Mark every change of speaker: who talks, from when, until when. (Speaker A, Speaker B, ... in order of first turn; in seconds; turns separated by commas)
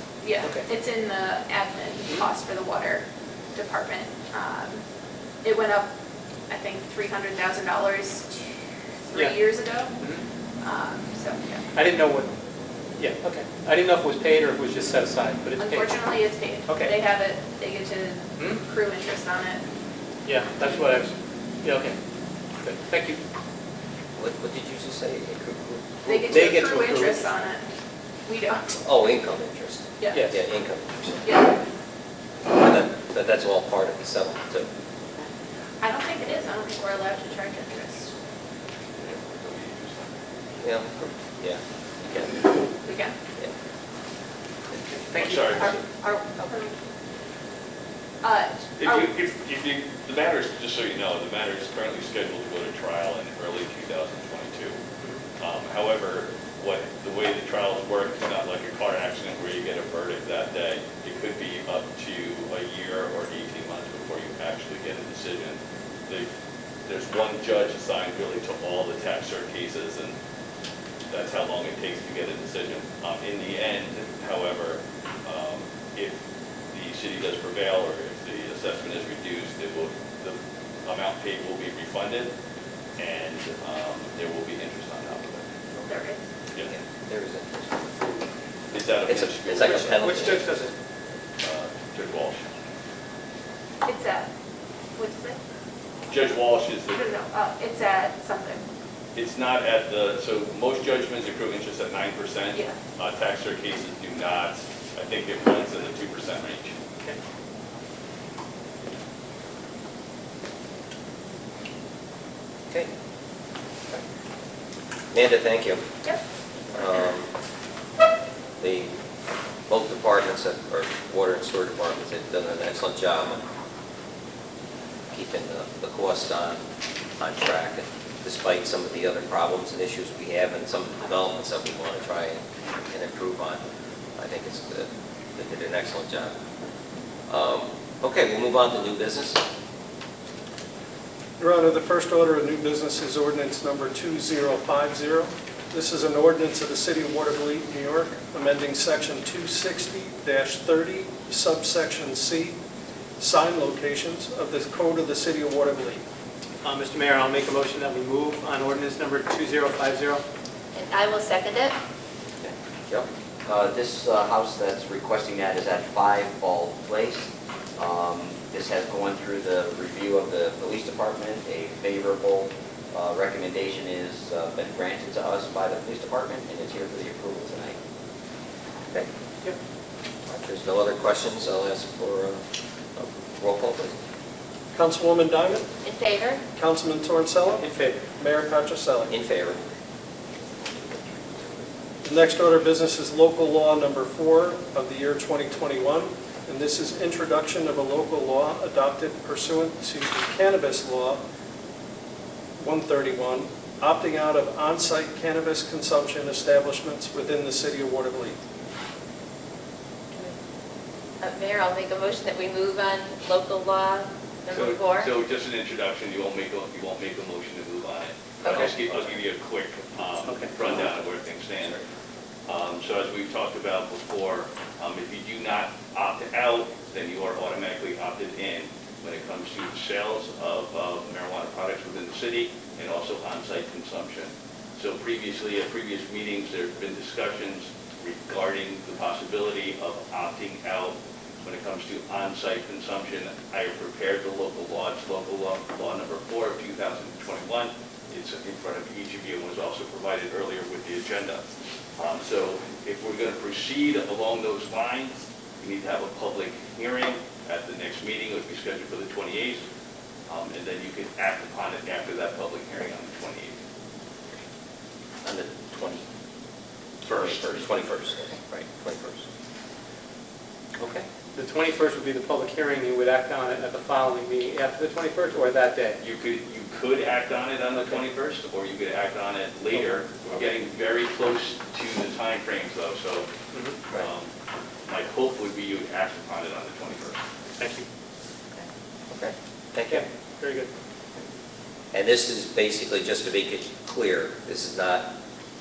Speaker A: 0.2-4.8, Speaker B: 0.4-0.7, Speaker A: 5.4-5.9, Speaker A: 6.5-8.3, Speaker A: 9.1-9.9, Speaker B: 10.0-10.2, Speaker A: 10.6-11.6, Speaker B: 11.7-12.3, Speaker B: 13.0-15.9, Speaker A: 15.6-19.6, Speaker B: 16.7-16.9, Speaker B: 18.4-18.6, Speaker B: 20.2-22.0, Speaker B: 22.6-23.2, Speaker C: 24.1-26.6, Speaker A: 26.0-27.7, Speaker B: 26.3-27.2, Speaker A: 28.2-28.8, Speaker C: 28.8-31.2, Speaker A: 30.0-30.3, Speaker B: 30.1-30.4, Speaker A: 31.2-31.6, Speaker C: 32.5-34.7, Speaker A: 35.8-38.1, Speaker D: 39.0-40.2, Speaker C: 40.6-42.7, Speaker A: 42.8-43.1, Speaker D: 45.0-45.8, Speaker E: 45.2-46.6, Speaker A: 46.4-46.7, Speaker A: 48.2-49.1, Speaker D: 48.8-54.8, Speaker D: 55.4-66.3, Speaker D: 66.8-70.2, Speaker D: 71.1-76.2, Speaker D: 76.7-82.3, Speaker D: 83.0-85.6, Speaker A: 85.8-86.2, Speaker C: 86.5-88.1, Speaker D: 88.7-90.2, Speaker C: 89.0-90.5, Speaker B: 89.8-90.7, Speaker D: 91.4-92.4, Speaker A: 93.8-94.3, Speaker A: 94.9-95.4, Speaker D: 96.1-97.0, Speaker A: 96.9-98.6, Speaker D: 99.2-106.7, Speaker A: 102.5-102.8, Speaker C: 115.1-115.8, Speaker C: 116.7-117.3, Speaker C: 118.6-118.9, Speaker C: 119.7-123.4, Speaker C: 125.1-126.6, Speaker C: 127.2-133.6, Speaker C: 134.2-136.3, Speaker C: 137.3-139.4, Speaker F: 141.4-152.6, Speaker F: 153.2-156.0, Speaker B: 156.6-160.2, Speaker E: 160.7-161.8, Speaker C: 162.4-163.1, Speaker G: 163.4-177.8, Speaker C: 180.2-182.4, Speaker C: 182.9-184.0, Speaker F: 184.7-185.7, Speaker E: 185.8-186.4, Speaker F: 186.6-189.1, Speaker B: 187.6-188.0, Speaker C: 189.1-189.6, Speaker F: 192.0-201.2, Speaker F: 202.6-208.4, Speaker E: 211.2-215.1, Speaker D: 214.5-221.8, Speaker E: 218.4-218.7, Speaker B: 218.5-218.9, Speaker B: 220.2-220.5, Speaker D: 222.5-251.4, Speaker D: 252.0-259.6, Speaker D: 260.3-263.6, Speaker C: 265.2-266.0, Speaker C: 267.0-269.2, Speaker D: 267.1-267.6, Speaker C: 270.8-271.1, Speaker B: 271.3-276.0, Speaker D: 276.0-283.3, Speaker B: 283.5-283.8, Speaker D: 283.9-284.3, Speaker D: 284.9-287.2, Speaker B: 287.6-287.9, Speaker C: 289.1-290.1, Speaker B: 289.9-290.7, Speaker C: 291.9-295.1